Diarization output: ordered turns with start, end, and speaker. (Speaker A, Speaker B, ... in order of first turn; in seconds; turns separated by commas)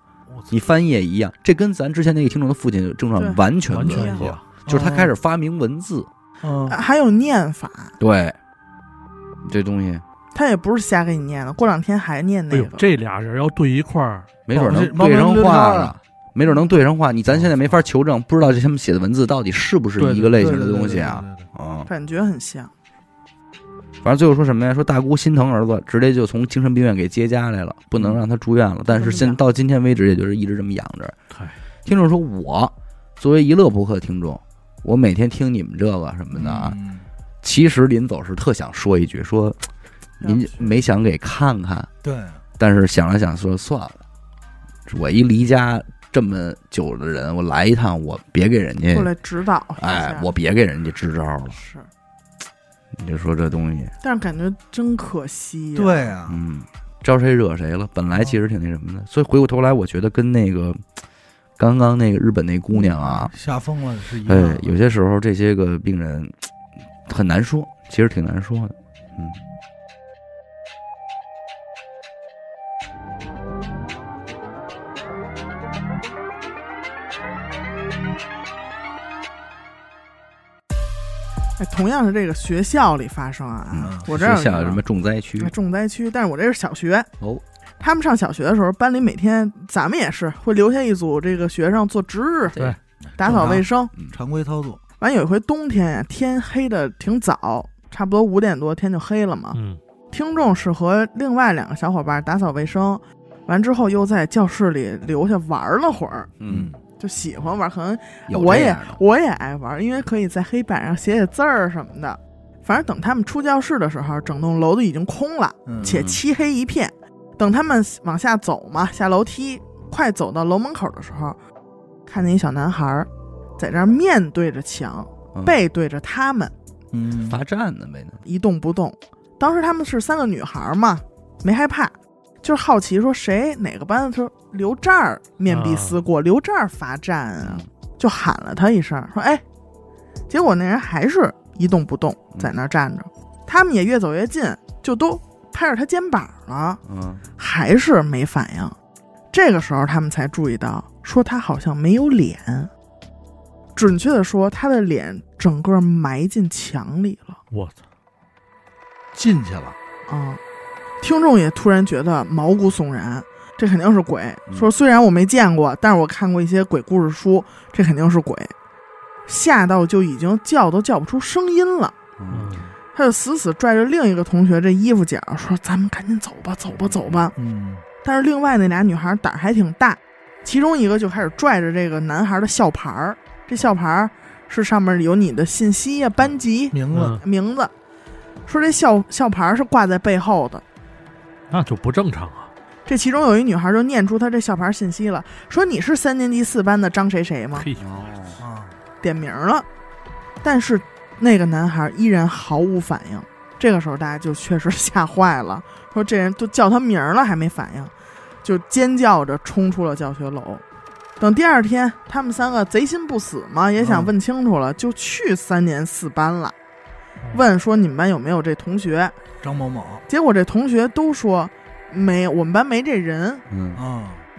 Speaker A: 0.5-6.1, Speaker B: 3.2-4.3, Speaker C: 3.7-4.5, Speaker D: 4.7-5.1, Speaker D: 6.4-6.8, Speaker B: 6.7-8.0, Speaker A: 8.0-8.4, Speaker A: 9.4-10.0, Speaker B: 10.3-12.9, Speaker C: 12.5-14.3, Speaker A: 14.5-21.9, Speaker D: 14.5-15.9, Speaker C: 20.0-20.6, Speaker D: 20.3-21.5, Speaker B: 21.9-22.7, Speaker A: 24.0-31.2, Speaker B: 28.9-29.4, Speaker A: 31.9-36.8, Speaker D: 36.3-37.1, Speaker A: 37.4-39.6, Speaker A: 40.2-41.9, Speaker D: 42.0-42.4, Speaker A: 42.6-44.0, Speaker A: 44.9-49.1, Speaker B: 48.9-50.3, Speaker A: 49.8-51.6, Speaker B: 51.5-51.9, Speaker A: 52.9-53.9, Speaker B: 54.0-56.1, Speaker D: 55.8-56.4, Speaker A: 56.3-60.8, Speaker A: 61.6-63.3, Speaker D: 62.8-64.7, Speaker A: 64.3-66.4, Speaker A: 67.1-69.4, Speaker B: 81.6-84.8, Speaker A: 83.7-85.5, Speaker D: 83.8-84.1, Speaker B: 85.4-87.1, Speaker B: 87.8-92.6, Speaker A: 92.5-92.8, Speaker D: 93.2-94.8, Speaker B: 93.2-93.9, Speaker B: 95.0-99.6, Speaker C: 99.5-99.8, Speaker B: 100.1-106.3, Speaker A: 106.4-106.7, Speaker D: 106.5-106.8, Speaker B: 107.0-121.4, Speaker A: 108.3-109.0, Speaker D: 115.7-116.0, Speaker A: 115.8-116.2, Speaker B: 122.1-126.5, Speaker D: 126.9-127.4, Speaker A: 127.3-128.2, Speaker B: 128.2-139.4, Speaker C: 135.5-136.0, Speaker A: 137.4-137.7, Speaker B: 140.3-146.8, Speaker A: 146.9-147.2, Speaker B: 147.4-148.8, Speaker B: 149.3-152.7, Speaker B: 153.8-157.4, Speaker C: 157.5-157.8, Speaker D: 159.1-159.8, Speaker B: 160.1-160.4, Speaker B: 161.0-168.5, Speaker B: 169.3-171.9, Speaker A: 172.2-172.6, Speaker C: 172.3-172.7, Speaker B: 172.9-177.3, Speaker D: 177.4-177.8, Speaker B: 178.0-187.7, Speaker D: 186.7-187.2, Speaker C: 186.9-187.2, Speaker B: 188.5-190.6, Speaker C: 191.5-192.5, Speaker B: 192.9-197.7, Speaker C: 197.6-197.9, Speaker A: 197.8-198.4, Speaker D: 198.4-198.8, Speaker B: 199.0-199.7, Speaker B: 200.4-207.9, Speaker B: 208.4-210.6, Speaker B: 211.2-216.6, Speaker D: 213.8-214.1, Speaker B: 217.3-219.2, Speaker D: 219.4-220.1, Speaker B: 220.1-223.4, Speaker A: 223.5-223.8, Speaker D: 223.8-224.2